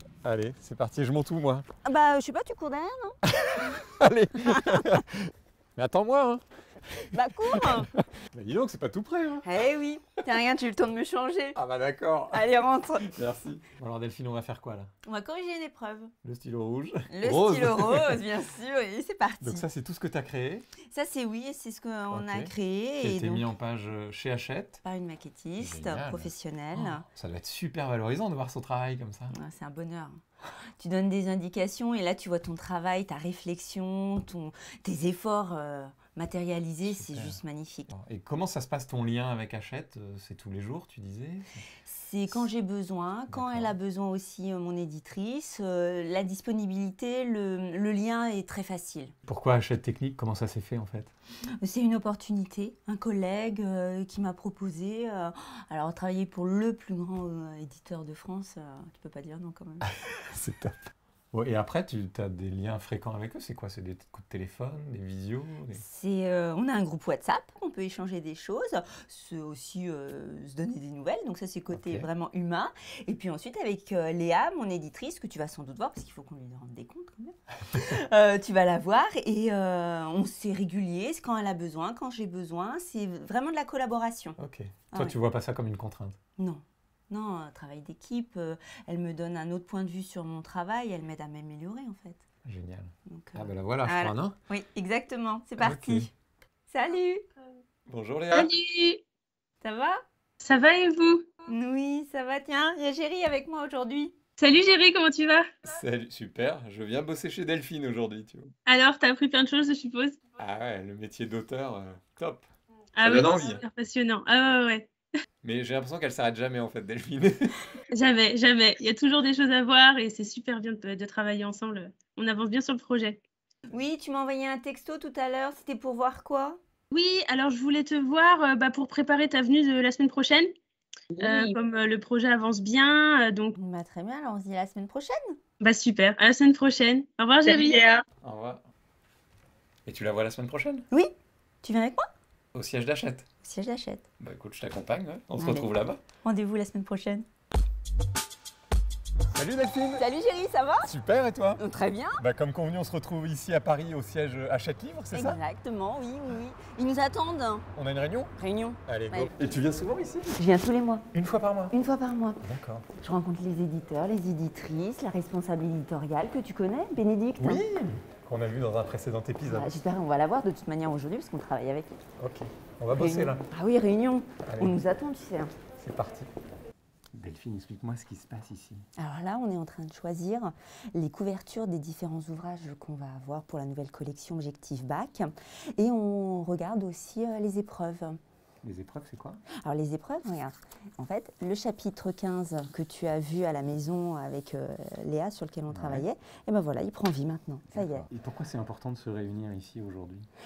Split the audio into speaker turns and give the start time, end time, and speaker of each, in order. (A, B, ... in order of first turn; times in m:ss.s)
0:00.2-0:01.7 A
0:01.8-0:03.8 B
0:03.3-0:05.1 A
0:04.5-0:04.8 B
0:05.8-0:06.4 A
0:07.1-0:07.9 B
0:07.5-0:09.5 A
0:09.4-0:11.6 B
0:11.6-0:12.5 A
0:12.3-0:13.1 B
0:13.0-0:14.9 A
0:15.0-0:16.1 B
0:16.2-0:18.2 A
0:17.1-0:19.6 B
0:19.4-0:20.7 A
0:20.9-0:23.5 B
0:22.1-0:24.8 A
0:24.8-0:27.1 B
0:25.6-0:29.3 A
0:29.3-0:30.2 B
0:30.8-0:37.9 B
0:36.9-0:41.6 A
0:41.9-0:49.2 B
0:43.3-0:43.8 A
0:49.3-0:51.1 A
0:51.6-0:59.9 B
1:00.2-1:00.7 A
1:01.3-1:05.8 A
1:05.7-1:24.4 B
1:11.7-1:12.1 A
1:24.4-1:26.2 A
1:26.4-1:32.2 B
1:32.4-1:34.4 A
1:33.1-1:36.1 B
1:35.6-1:36.1 A
1:36.7-1:37.2 B
1:37.9-1:38.5 A
1:38.3-1:39.0 C
1:39.6-1:40.0 B
1:40.4-1:41.3 C
1:41.5-1:44.2 B
1:44.4-1:45.5 C
1:45.6-1:48.5 A
1:48.7-1:50.2 C
1:50.4-1:52.5 A
1:53.0-1:54.9 C
1:53.0-1:53.6 A
1:55.4-1:57.6 A
1:57.9-2:03.2 C
2:03.7-2:06.6 B
2:06.9-2:10.5 C
2:11.2-2:13.6 C
2:13.6-2:15.4 B
2:15.6-2:18.0 C
2:18.2-2:18.6 A
2:19.9-2:20.8 A
2:20.9-2:22.0 B
2:22.5-2:23.3 A
2:23.4-2:24.1 B
2:24.2-2:26.0 A
2:25.4-2:25.7 B
2:26.2-2:27.3 B
2:29.3-2:30.0 A
2:30.0-2:30.9 B
2:30.8-2:31.6 A
2:31.6-2:32.2 B
2:32.2-2:35.4 A
2:35.1-2:37.7 B
2:37.8-2:38.3 A
2:38.4-2:39.3 B
2:38.9-2:40.4 A
2:40.4-2:41.1 B
2:41.1-2:41.8 A
2:41.7-2:42.4 B
2:42.4-2:42.9 A
2:43.0-2:47.6 B
2:47.4-2:49.7 A
2:49.5-2:51.9 B
2:52.2-2:53.4 A
2:52.9-2:55.5 B
2:54.4-2:54.8 A
2:55.8-2:56.3 A
2:57.1-2:58.9 A
2:59.0-3:08.2 B
3:08.6-3:09.4 A
3:09.6-3:18.1 B
3:15.7-3:16.1 A
3:17.7-3:20.3 A